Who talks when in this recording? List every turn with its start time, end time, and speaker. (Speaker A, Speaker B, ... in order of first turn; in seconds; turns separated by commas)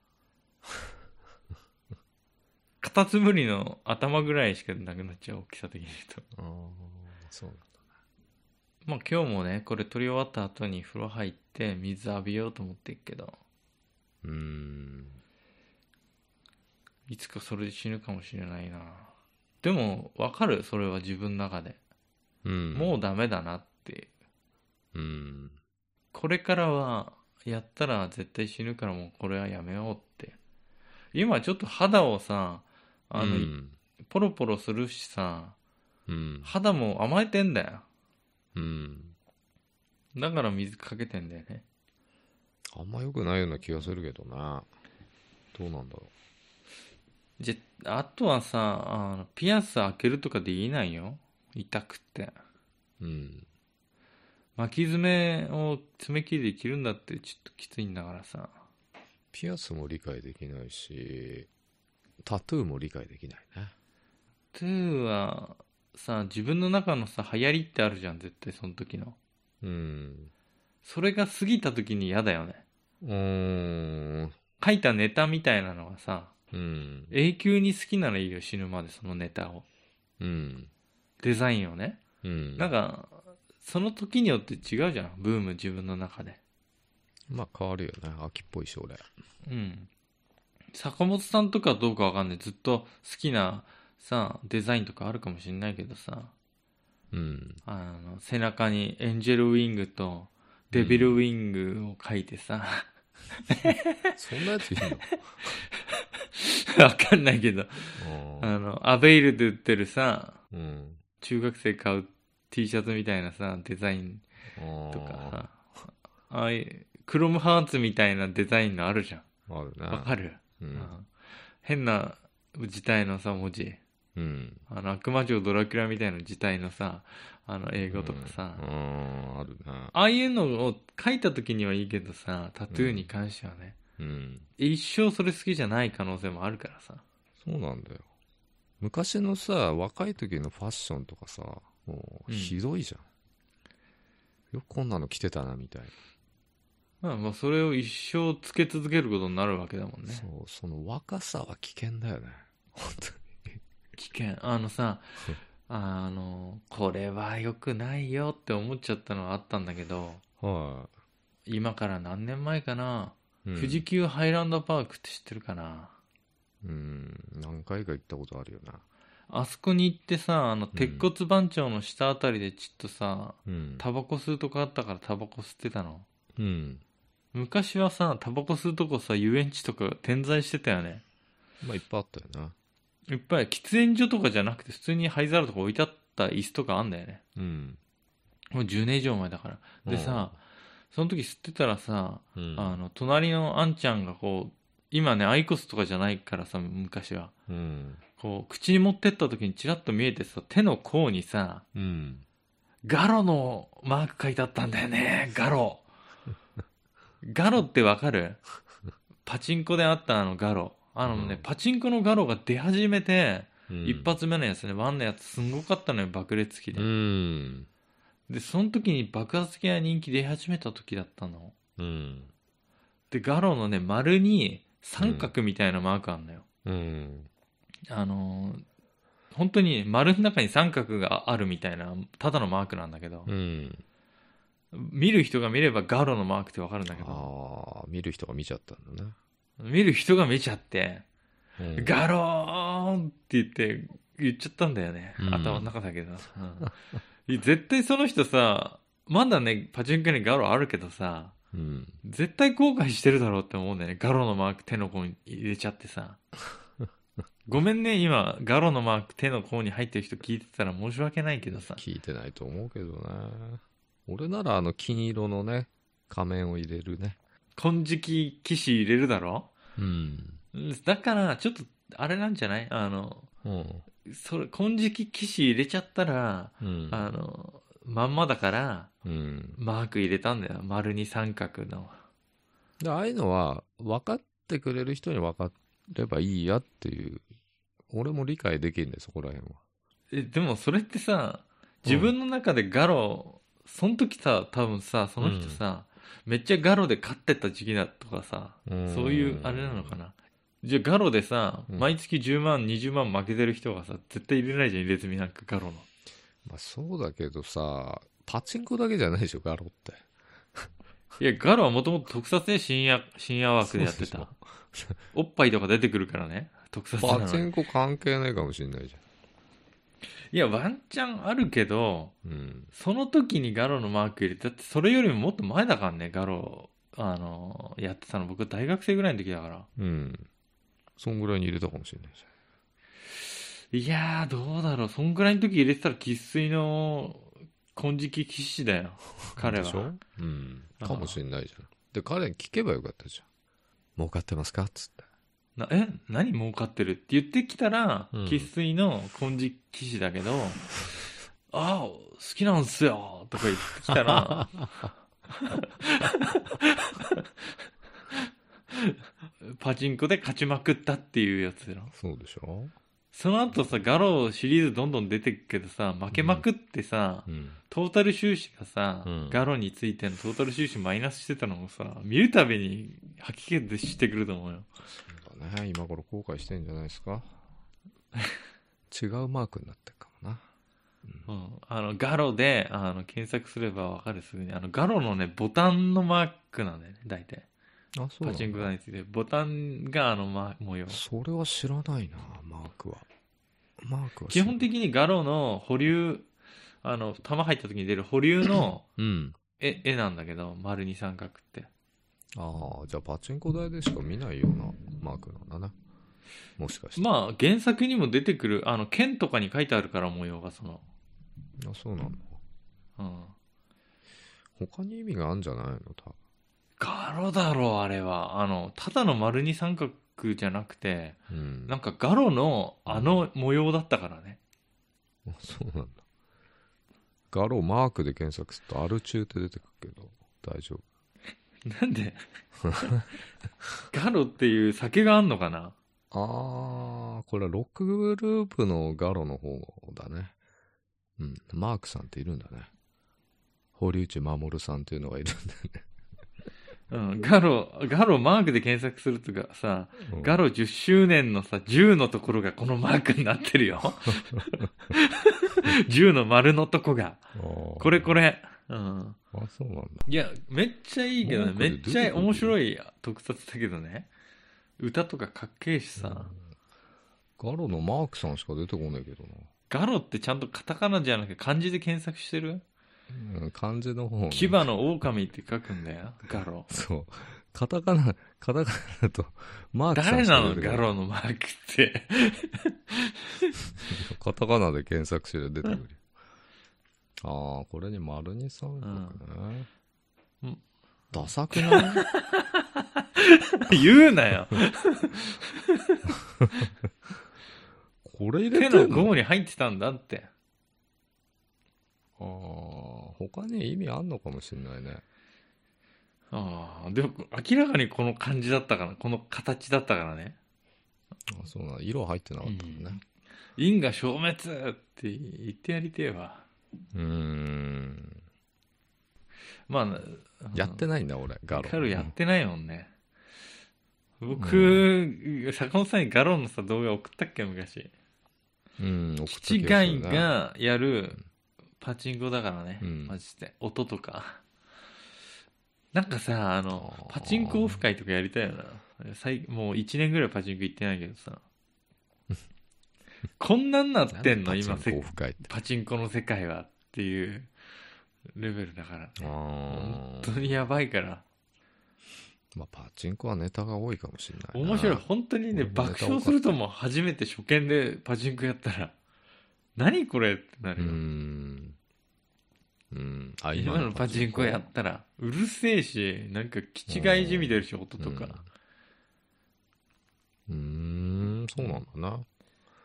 Speaker A: 2.8-6.2, Speaker B: 6.3-7.7, Speaker A: 8.8-13.4, Speaker B: 14.2-15.2, Speaker A: 17.1-21.8, Speaker B: 22.4-22.9, Speaker A: 22.7-24.1, Speaker B: 24.9-25.6, Speaker A: 26.1-30.4, Speaker A: 31.1-33.5, Speaker B: 33.2-33.8, Speaker A: 34.0-35.6, Speaker B: 36.1-36.5, Speaker A: 36.4-37.9, Speaker B: 38.5-39.1, Speaker A: 40.1-41.6, Speaker B: 42.7-44.7, Speaker B: 45.5-46.1, Speaker A: 47.4-52.3, Speaker B: 53.0-53.5, Speaker A: 54.6-58.5, Speaker B: 59.3-61.5, Speaker B: 62.2-63.7, Speaker A: 64.5-69.2, Speaker B: 69.6-70.3, Speaker A: 70.8-72.6, Speaker B: 73.0-74.3, Speaker A: 74.6-76.3, Speaker B: 76.5-77.1, Speaker A: 77.1-79.7, Speaker B: 80.2-80.7, Speaker A: 81.2-82.0, Speaker B: 82.2-82.7, Speaker A: 82.6-86.4, Speaker B: 87.3-89.1, Speaker A: 89.5-89.9, Speaker A: 90.7-96.3, Speaker B: 97.1-97.6, Speaker A: 97.7-102.9, Speaker B: 100.7-101.2, Speaker A: 103.5-104.1, Speaker B: 104.2-105.5, Speaker A: 105.0-110.4, Speaker B: 108.0-108.5, Speaker B: 110.5-111.0, Speaker A: 111.2-114.2, Speaker B: 114.6-115.5, Speaker A: 114.9-115.6, Speaker A: 116.3-119.3, Speaker B: 119.5-120.9, Speaker A: 119.9-121.1, Speaker A: 121.6-123.8, Speaker B: 124.2-124.6, Speaker A: 124.7-128.7, Speaker B: 127.9-129.9, Speaker A: 129.9-133.8, Speaker B: 132.7-133.1, Speaker B: 134.0-134.5, Speaker A: 134.6-137.0, Speaker B: 137.4-138.1, Speaker B: 138.8-143.1, Speaker A: 142.3-142.6, Speaker B: 144.5-145.9, Speaker A: 147.0-150.3, Speaker B: 150.1-153.6, Speaker A: 154.0-160.2, Speaker B: 160.4-160.9, Speaker A: 161.5-165.9, Speaker B: 163.4-163.8, Speaker B: 166.6-168.8, Speaker A: 169.3-176.1, Speaker B: 170.7-171.1, Speaker B: 173.5-173.8, Speaker B: 176.4-176.8, Speaker A: 177.3-181.0, Speaker B: 181.6-182.6, Speaker A: 183.1-187.2, Speaker B: 187.4-187.8, Speaker A: 188.5-190.4, Speaker B: 189.8-190.3, Speaker A: 190.9-197.3, Speaker B: 192.4-192.8, Speaker B: 197.5-198.0, Speaker A: 198.2-201.7, Speaker B: 201.7-202.2, Speaker A: 202.8-205.9, Speaker A: 207.2-208.4, Speaker A: 209.2-216.9, Speaker B: 211.1-211.4, Speaker B: 213.7-214.1, Speaker B: 216.7-217.7, Speaker A: 218.3-221.6, Speaker B: 221.8-222.3, Speaker A: 223.1-226.4, Speaker B: 225.0-225.3, Speaker B: 226.7-227.3, Speaker A: 227.9-228.7, Speaker A: 229.3-233.3, Speaker B: 233.3-233.8, Speaker A: 234.7-237.3, Speaker B: 236.9-239.2, Speaker A: 239.6-241.1, Speaker B: 241.6-241.9, Speaker A: 241.8-246.7, Speaker B: 245.2-245.7, Speaker A: 247.2-251.3, Speaker B: 251.5-252.0, Speaker A: 252.0-256.2, Speaker A: 257.5-261.8, Speaker B: 261.6-267.2, Speaker A: 267.6-269.5, Speaker B: 269.8-270.4, Speaker A: 270.5-273.3, Speaker B: 273.4-273.9, Speaker A: 274.0-278.9, Speaker B: 276.6-277.1, Speaker B: 279.0-279.6, Speaker A: 279.6-282.0, Speaker B: 282.8-287.2, Speaker B: 287.9-289.6, Speaker A: 290.1-305.9, Speaker B: 291.9-292.1, Speaker B: 295.2-295.6, Speaker B: 298.7-300.0, Speaker B: 306.4-310.7, Speaker A: 311.2-314.3, Speaker B: 313.6-315.0, Speaker A: 315.1-317.5, Speaker B: 317.0-319.0, Speaker A: 320.3-322.1, Speaker B: 322.2-322.7, Speaker A: 322.7-329.7, Speaker B: 329.8-330.3, Speaker B: 331.0-332.2, Speaker A: 333.2-339.9, Speaker B: 339.4-343.2, Speaker A: 340.8-341.2, Speaker B: 344.0-345.0, Speaker A: 345.6-350.7, Speaker B: 348.1-348.5, Speaker A: 351.5-357.3, Speaker A: 358.1-361.9, Speaker B: 361.9-362.7, Speaker A: 363.1-374.7, Speaker B: 366.1-366.4, Speaker B: 367.3-367.6, Speaker B: 369.1-369.4, Speaker B: 375.1-377.3, Speaker B: 378.9-380.4, Speaker A: 381.3-387.5, Speaker B: 387.9-388.7, Speaker A: 388.2-391.0, Speaker B: 390.9-393.1, Speaker B: 393.8-394.6, Speaker A: 394.3-396.3, Speaker A: 396.8-398.9, Speaker B: 399.0-399.4, Speaker A: 399.6-401.7, Speaker B: 402.4-405.7, Speaker B: 406.6-407.1, Speaker A: 407.0-410.8, Speaker B: 411.6-412.4, Speaker A: 413.0-413.4, Speaker B: 414.6-416.2, Speaker A: 416.8-424.4, Speaker B: 421.3-421.8, Speaker B: 422.9-423.2, Speaker B: 425.3-426.0, Speaker B: 427.3-430.8, Speaker A: 431.7-432.2, Speaker A: 433.9-435.8, Speaker B: 436.1-440.3, Speaker B: 441.2-442.7, Speaker B: 443.8-445.9, Speaker A: 446.9-459.2, Speaker B: 450.0-450.4, Speaker B: 457.4-458.2, Speaker B: 459.3-460.1, Speaker A: 460.1-464.1, Speaker B: 461.2-462.6, Speaker A: 464.8-466.3, Speaker B: 466.0-466.4, Speaker B: 467.4-469.5, Speaker A: 469.7-472.6, Speaker B: 473.1-474.7, Speaker A: 474.3-476.7, Speaker B: 476.7-480.9, Speaker A: 479.9-483.6, Speaker B: 483.9-486.0, Speaker B: 487.2-489.7, Speaker A: 488.8-489.2, Speaker B: 491.1-492.1, Speaker A: 491.5-496.1, Speaker B: 498.0-499.1, Speaker A: 498.5-500.3, Speaker B: 502.2-505.0, Speaker A: 506.3-510.4, Speaker B: 511.3-513.0, Speaker A: 512.4-513.0, Speaker A: 513.6-516.5, Speaker B: 516.9-518.2, Speaker A: 519.7-520.8, Speaker B: 520.5-522.1, Speaker A: 521.5-522.9, Speaker A: 524.2-527.9, Speaker B: 524.4-524.9, Speaker B: 528.8-530.3, Speaker A: 529.3-531.2, Speaker A: 531.8-534.4, Speaker B: 532.8-533.2, Speaker A: 535.9-541.4, Speaker B: 536.7-537.8, Speaker A: 543.4-547.5, Speaker B: 544.1-545.5, Speaker A: 548.4-551.2, Speaker B: 549.2-550.5, Speaker B: 552.5-556.6, Speaker A: 554.5-558.9, Speaker A: 559.8-561.0, Speaker B: 560.8-561.8, Speaker B: 562.9-564.6, Speaker A: 563.5-568.4, Speaker B: 566.9-568.4, Speaker B: 570.5-572.3